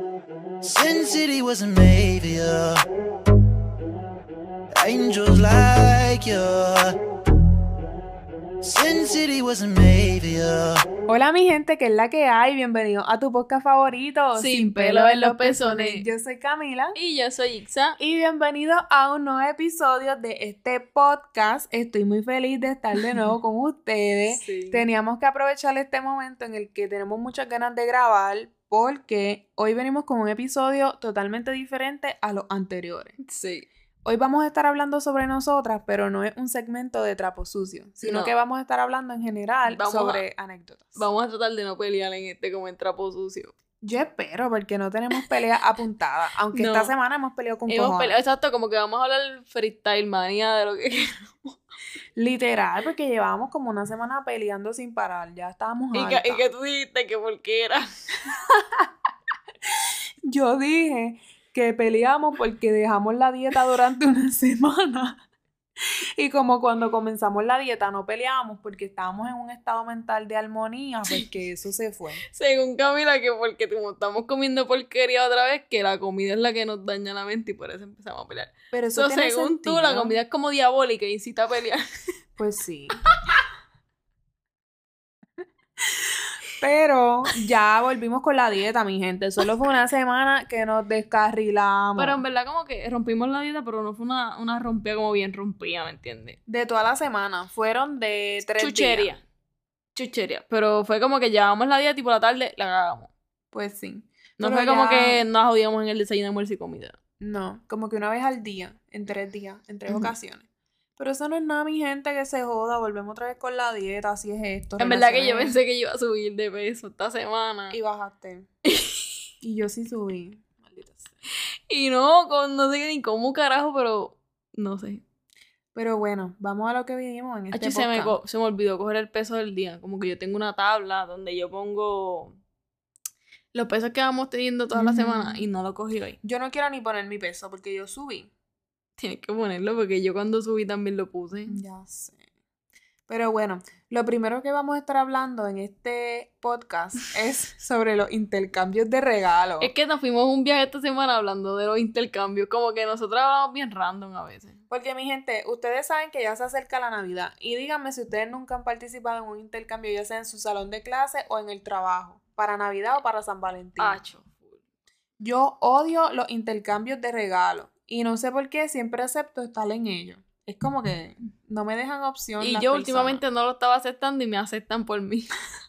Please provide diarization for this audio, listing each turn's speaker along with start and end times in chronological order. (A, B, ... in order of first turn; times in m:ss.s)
0:00.6-0:02.8 A
0:04.8-0:07.0 A
0:08.6-0:10.9 A
0:11.1-0:17.0 B
0:14.4-0:16.0 C
0:17.0-0:18.0 C
0:18.0-0:33.2 B
0:24.3-0:24.8 C
0:33.2-0:33.7 C
0:34.0-0:41.0 B
0:38.0-0:38.3 C
0:39.7-0:40.2 C
0:41.0-0:43.5 C
0:43.8-0:48.2 B
0:46.5-0:46.9 C
0:47.7-0:51.6 C
0:52.2-0:56.4 B
0:55.9-0:57.9 C
0:58.3-0:58.9 B
1:00.2-1:05.2 B
1:05.8-1:12.2 B
1:12.3-1:21.8 C
1:18.7-1:20.2 B
1:22.4-1:23.0 B
1:25.8-1:32.2 B
1:32.0-1:36.4 C
1:36.5-1:39.1 B
1:38.6-1:39.2 C
1:40.0-1:43.1 C
1:43.5-1:45.2 B
1:44.4-1:47.0 C
1:47.2-1:55.6 B
1:54.8-1:57.8 C
1:57.7-1:58.5 B
1:58.7-1:59.1 C
1:59.4-2:01.1 B
2:01.7-2:05.0 C
2:05.8-2:08.2 B
2:07.5-2:12.4 C
2:13.5-2:16.2 C
2:14.7-2:15.4 B
2:16.2-2:18.3 B
2:19.0-2:21.6 C
2:21.5-2:22.2 B
2:23.1-2:29.7 B
2:29.6-2:34.6 C
2:34.7-2:44.0 B
2:43.8-2:44.6 C
2:45.2-2:53.2 B
2:52.4-2:55.3 C